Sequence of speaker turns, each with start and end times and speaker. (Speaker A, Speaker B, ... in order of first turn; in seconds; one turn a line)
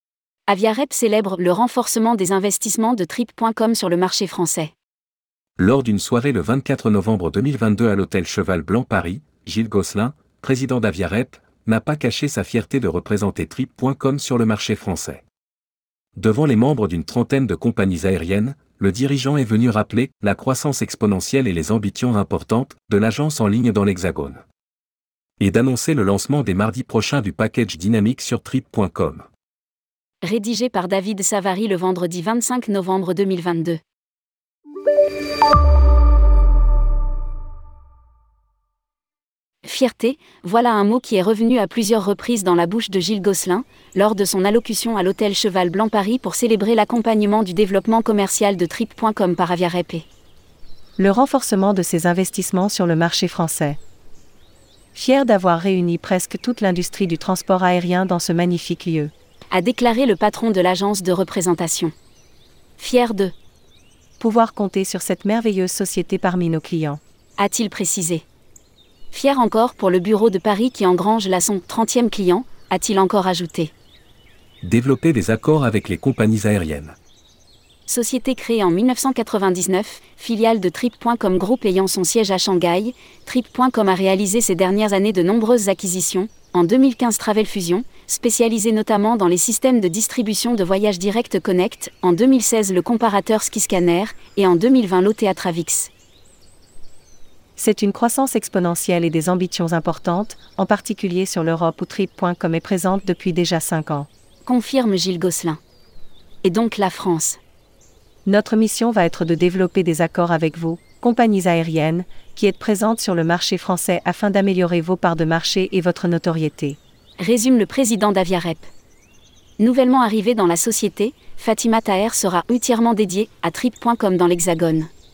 Speaker A: 0.5-4.7
Speaker B: 5.6-15.2
Speaker B: 16.1-24.4
Speaker B: 25.4-29.3
Speaker A: 30.2-33.8
Speaker A: 39.6-50.1
Speaker C: 51.0-53.8
Speaker C: 54.9-59.1
Speaker A: 59.5-61.9
Speaker A: 62.8-63.3
Speaker C: 64.2-67.0
Speaker A: 67.4-68.2
Speaker A: 69.1-73.7
Speaker B: 74.6-77.0
Speaker A: 77.9-95.9
Speaker C: 97.6-104.1
Speaker A: 104.4-105.6
Speaker A: 106.4-107.4
Speaker C: 108.2-116.8
Speaker A: 117.2-118.7
Speaker A: 119.6-124.9